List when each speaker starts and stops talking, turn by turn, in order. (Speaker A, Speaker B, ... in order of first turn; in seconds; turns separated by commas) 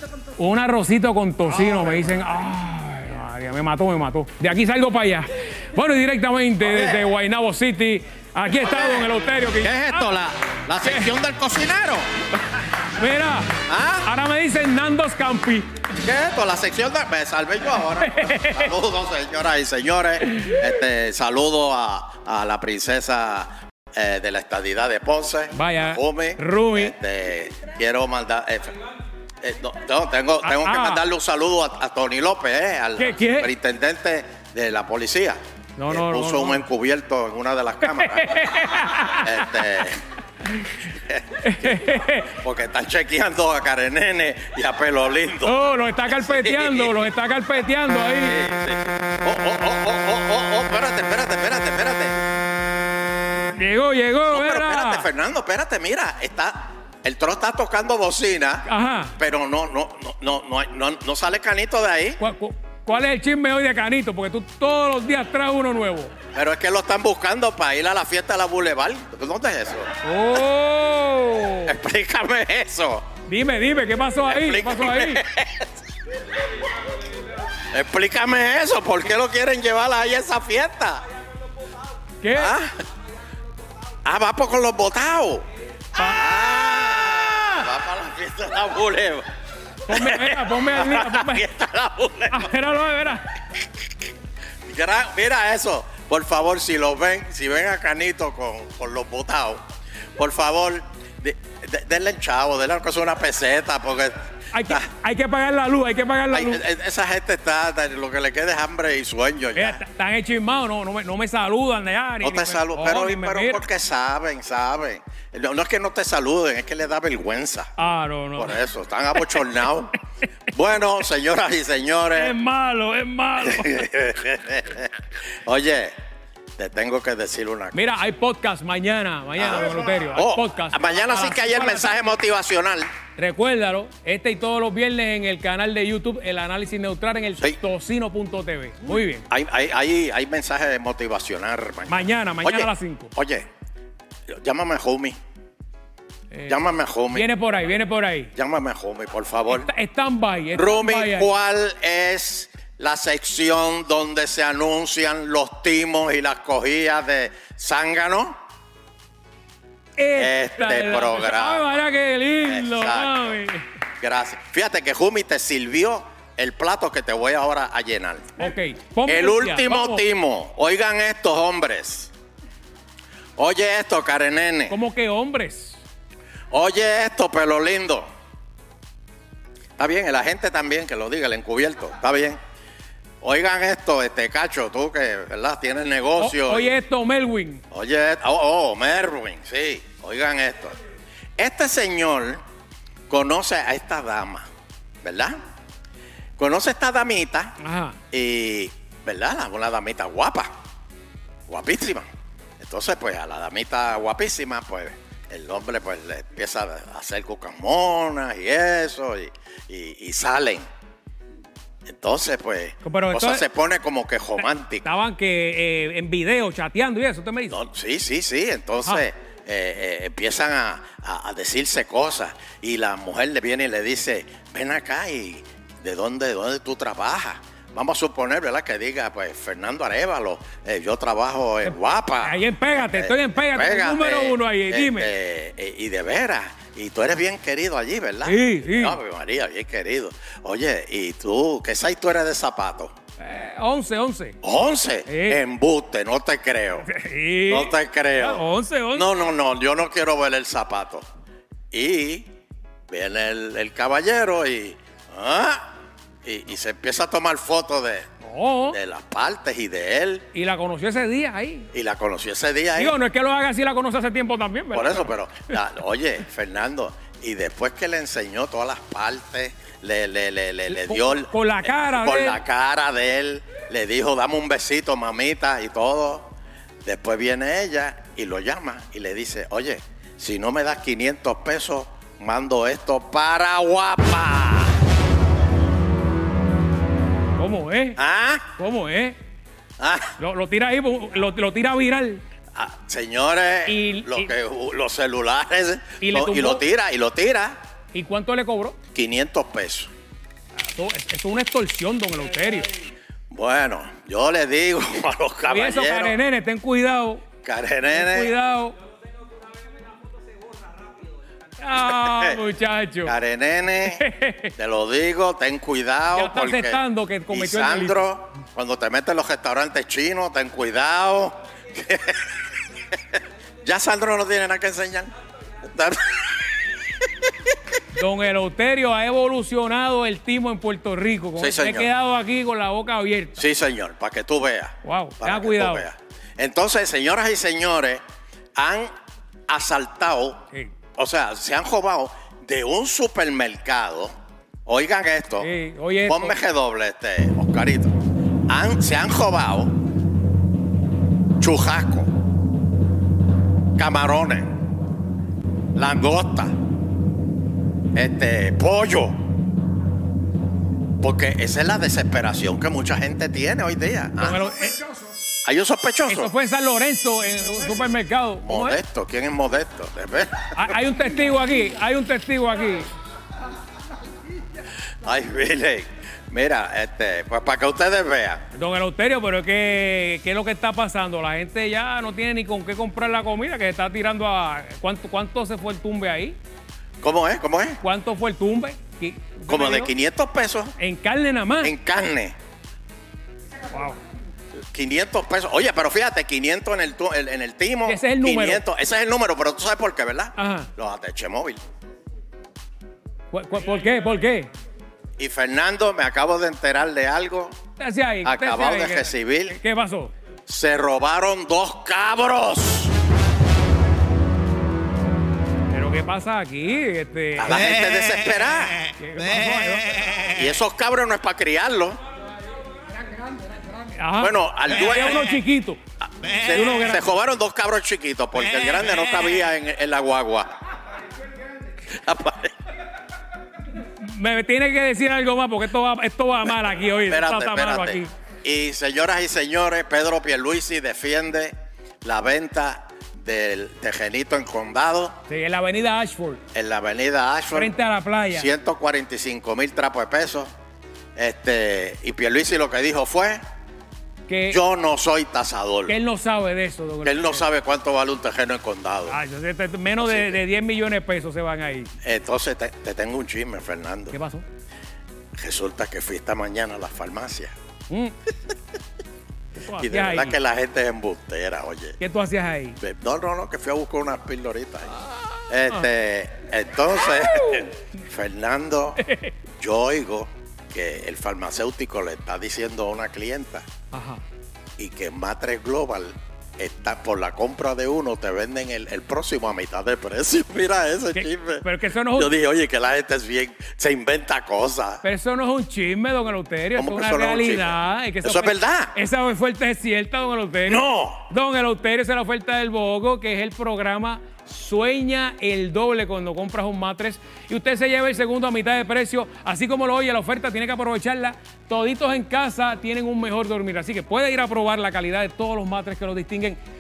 Speaker A: 0.3-10.1, Speaker B: 6.7-7.1, Speaker B: 8.6-12.1, Speaker A: 10.8-11.1, Speaker A: 12.8-15.7, Speaker B: 13.7-14.1, Speaker B: 16.0-28.8, Speaker A: 18.0-18.7, Speaker A: 25.5-26.9, Speaker B: 29.4-40.0, Speaker A: 30.4-31.0, Speaker A: 33.0-33.5, Speaker A: 35.8-36.6, Speaker A: 37.8-39.5, Speaker B: 40.9-47.0, Speaker A: 41.4-42.4, Speaker A: 45.5-48.4, Speaker B: 48.2-52.2, Speaker A: 53.5-55.1, Speaker B: 54.3-58.7, Speaker A: 58.7-59.1, Speaker B: 59.2-62.2, Speaker A: 62.2-66.1, Speaker B: 66.3-69.9, Speaker A: 70.0-71.8, Speaker B: 71.7-73.0, Speaker A: 73.3-75.2, Speaker B: 74.3-75.7, Speaker B: 77.7-81.0, Speaker A: 82.2-82.6, Speaker B: 82.3-82.8, Speaker B: 84.0-85.5, Speaker A: 86.0-86.3, Speaker B: 86.0-89.3, Speaker A: 89.9-91.5, Speaker B: 89.9-92.5, Speaker A: 92.3-93.2, Speaker B: 94.7-99.6, Speaker B: 100.2-104.9, Speaker A: 104.5-106.6, Speaker B: 106.3-109.8, Speaker A: 109.6-113.6, Speaker B: 112.2-117.7, Speaker A: 117.8-118.6, Speaker B: 118.4-120.0, Speaker A: 119.2-119.4, Speaker B: 120.5-122.3, Speaker A: 122.2-123.9, Speaker B: 123.4-125.9, Speaker B: 126.6-128.0, Speaker A: 127.7-132.0, Speaker B: 129.4-132.9, Speaker A: 133.2-139.3, Speaker B: 139.3-143.5, Speaker A: 141.9-143.1, Speaker B: 144.3-145.2, Speaker A: 146.3-148.3, Speaker B: 146.5-147.3, Speaker B: 148.4-149.7, Speaker A: 149.5-151.3, Speaker B: 150.5-158.4, Speaker A: 160.0-163.7, Speaker B: 160.2-161.8, Speaker B: 162.4-163.3, Speaker B: 164.0-168.3, Speaker A: 168.4-170.0, Speaker B: 169.1-172.1, Speaker B: 173.4-174.8, Speaker A: 174.7-175.8, Speaker B: 176.5-178.1, Speaker B: 179.8-182.4, Speaker B: 183.2-186.7, Speaker A: 186.2-187.6, Speaker B: 187.7-190.8, Speaker B: 191.4-192.4, Speaker B: 193.1-194.5, Speaker B: 195.0-195.3, Speaker B: 196.4-197.6, Speaker A: 197.6-198.0, Speaker B: 198.1-200.5, Speaker B: 201.5-202.1, Speaker B: 202.6-210.7, Speaker B: 211.9-214.8, Speaker A: 212.8-213.4, Speaker A: 214.4-217.6, Speaker B: 217.5-242.9, Speaker A: 231.7-235.1, Speaker A: 238.2-239.0, Speaker A: 243.2-244.4, Speaker B: 244.4-246.9, Speaker A: 245.1-245.4, Speaker A: 246.8-249.1, Speaker B: 247.5-251.1, Speaker B: 251.7-252.3, Speaker B: 252.9-255.7, Speaker B: 256.2-258.1, Speaker A: 258.2-258.8, Speaker B: 258.7-260.3, Speaker A: 260.3-261.7, Speaker B: 261.7-263.0, Speaker A: 262.8-265.1, Speaker B: 264.7-276.3, Speaker A: 270.7-272.4, Speaker B: 276.9-284.8, Speaker A: 287.4-288.0, Speaker B: 288.0-288.5, Speaker A: 288.6-289.2, Speaker B: 289.8-290.1, Speaker A: 290.2-292.2, Speaker B: 292.6-297.6, Speaker A: 293.7-294.3, Speaker A: 296.0-296.6, Speaker A: 297.9-298.8, Speaker B: 298.9-299.9, Speaker A: 300.7-302.7, Speaker B: 303.3-306.2, Speaker A: 305.5-307.2, Speaker B: 307.4-308.3, Speaker A: 307.9-308.8, Speaker A: 311.6-313.1, Speaker B: 311.8-312.4, Speaker B: 313.1-322.4, Speaker A: 313.8-314.5, Speaker A: 316.1-318.0, Speaker B: 323.1-325.1, Speaker B: 325.6-327.3, Speaker A: 327.9-333.4, Speaker B: 331.4-331.9, Speaker B: 333.4-338.0, Speaker A: 334.8-335.9, Speaker B: 338.6-338.9, Speaker B: 339.5-340.4, Speaker B: 341.0-344.1, Speaker B: 344.7-345.5, Speaker A: 345.4-346.4, Speaker B: 346.1-349.7, Speaker B: 351.4-352.1, Speaker B: 353.8-354.5, Speaker B: 355.8-356.5, Speaker B: 357.9-359.2, Speaker B: 361.0-364.4, Speaker A: 364.2-364.8, Speaker B: 365.4-366.3, Speaker A: 366.1-368.8, Speaker B: 368.4-370.6, Speaker A: 370.6-372.9, Speaker B: 375.0-378.4, Speaker A: 378.6-386.4, Speaker B: 387.0-387.8, Speaker A: 387.8-389.9, Speaker B: 389.5-390.7, Speaker A: 390.8-391.7, Speaker B: 391.6-392.4, Speaker A: 393.7-394.0, Speaker B: 394.7-401.6, Speaker A: 397.9-398.6, Speaker A: 400.4-400.7, Speaker A: 403.3-404.5, Speaker B: 405.2-407.6, Speaker A: 407.8-410.1, Speaker B: 408.2-409.6, Speaker B: 410.5-412.9, Speaker A: 415.7-417.6, Speaker B: 417.4-418.9, Speaker A: 419.0-420.2, Speaker B: 420.2-422.0, Speaker A: 423.9-425.8, Speaker B: 424.2-425.4, Speaker B: 426.1-430.5, Speaker A: 426.4-427.0, Speaker B: 431.9-432.5, Speaker A: 433.9-438.1, Speaker B: 437.1-445.2, Speaker A: 445.3-446.4, Speaker B: 446.5-447.7, Speaker A: 447.5-448.5, Speaker B: 448.3-450.5, Speaker B: 451.2-453.4, Speaker A: 454.3-454.6, Speaker B: 454.5-456.0, Speaker A: 455.9-457.4, Speaker B: 457.0-459.2, Speaker A: 459.1-461.9, Speaker B: 460.0-460.4, Speaker B: 462.0-464.2, Speaker A: 464.1-464.4, Speaker B: 465.4-467.5, Speaker A: 469.6-470.4, Speaker B: 469.8-472.0, Speaker A: 472.0-472.8, Speaker B: 472.8-474.9, Speaker B: 475.5-479.0, Speaker A: 477.3-477.7, Speaker A: 479.0-479.3, Speaker B: 479.6-483.6, Speaker A: 483.9-484.2, Speaker B: 484.8-495.0, Speaker A: 491.1-492.3, Speaker A: 495.0-516.6, Speaker B: 496.8-498.9, Speaker B: 500.7-501.3